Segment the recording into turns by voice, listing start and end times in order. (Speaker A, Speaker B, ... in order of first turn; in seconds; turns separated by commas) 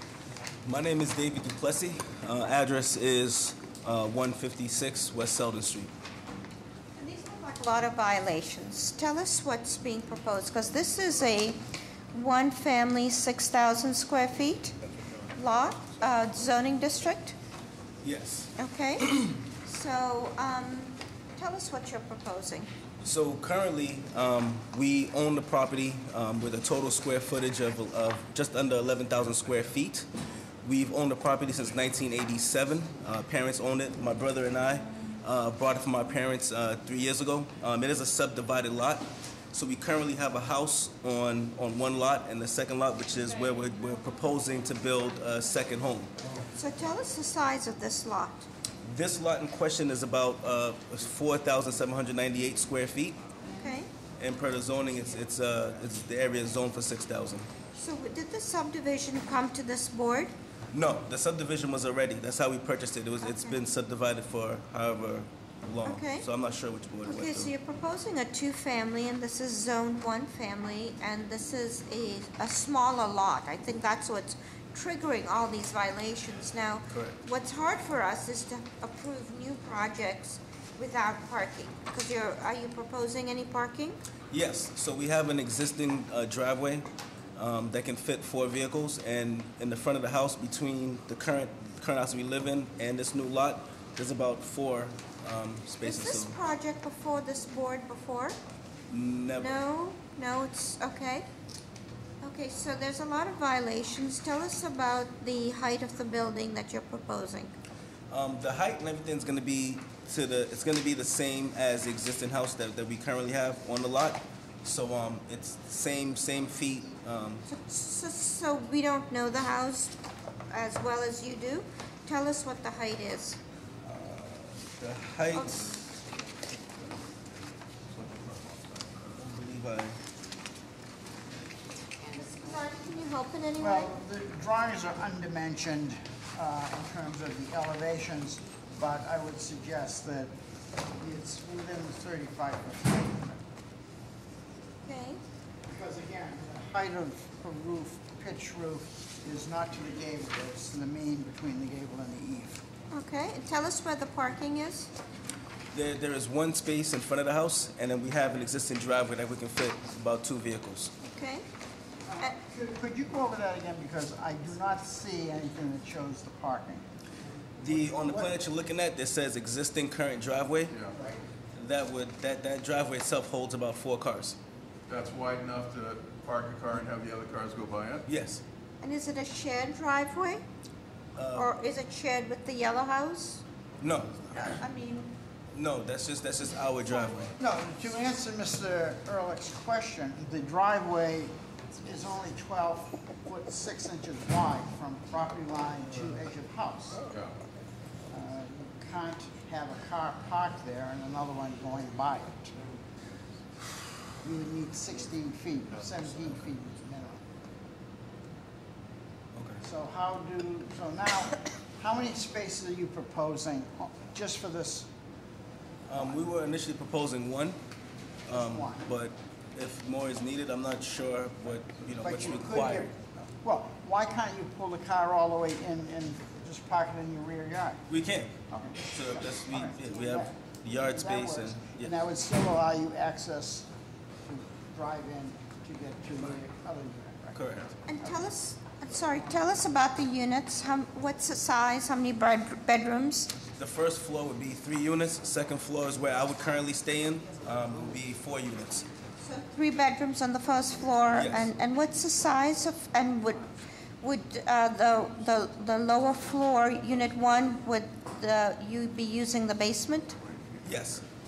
Speaker A: 0.6-5.9, Speaker B: 7.0-11.6, Speaker B: 12.1-14.8, Speaker B: 15.3-17.3, Speaker A: 18.0-18.5, Speaker B: 18.6-22.7, Speaker A: 23.0-30.1, Speaker A: 30.6-46.1, Speaker B: 46.5-48.5, Speaker A: 48.8-53.2, Speaker B: 53.6-53.9, Speaker A: 54.2-57.5, Speaker B: 57.7-60.3, Speaker A: 60.7-67.5, Speaker B: 63.2-63.6, Speaker B: 65.8-66.2, Speaker B: 67.0-84.0, Speaker A: 76.9-77.2, Speaker A: 84.3-96.3, Speaker B: 95.8-98.3, Speaker A: 98.9-99.6, Speaker B: 99.4-101.2, Speaker B: 102.2-107.5, Speaker A: 108.1-117.4, Speaker B: 117.5-119.9, Speaker B: 120.5-123.4, Speaker A: 123.8-125.8, Speaker B: 125.3-125.7, Speaker C: 127.9-129.0, Speaker A: 129.2-130.0, Speaker B: 132.0-133.9, Speaker D: 133.6-140.3, Speaker D: 141.0-143.4, Speaker B: 144.8-145.2, Speaker D: 145.7-152.6, Speaker B: 152.9-154.9, Speaker A: 155.7-160.9, Speaker B: 161.1-161.4, Speaker D: 162.1-166.8, Speaker A: 167.6-170.7, Speaker D: 167.9-168.3, Speaker C: 170.7-170.9, Speaker D: 170.9-171.2, Speaker A: 171.5-174.4, Speaker C: 174.9-178.0, Speaker A: 178.1-178.4, Speaker B: 178.8-180.4, Speaker A: 181.2-181.5, Speaker B: 181.3-183.4, Speaker A: 183.8-184.6, Speaker B: 184.4-185.1, Speaker A: 185.5-187.3, Speaker D: 187.4-197.1, Speaker C: 197.1-197.3, Speaker D: 198.1-202.5, Speaker D: 204.2-207.2, Speaker A: 209.3-209.6, Speaker D: 209.6-214.9, Speaker A: 215.9-217.6, Speaker A: 218.3-222.9, Speaker D: 218.3-218.9, Speaker D: 222.0-227.8, Speaker A: 227.9-231.9, Speaker D: 228.5-233.7, Speaker D: 234.2-237.4, Speaker A: 237.3-237.8, Speaker B: 237.9-243.3, Speaker A: 243.6-248.9, Speaker B: 249.2-260.2, Speaker A: 251.1-251.5, Speaker A: 260.6-261.0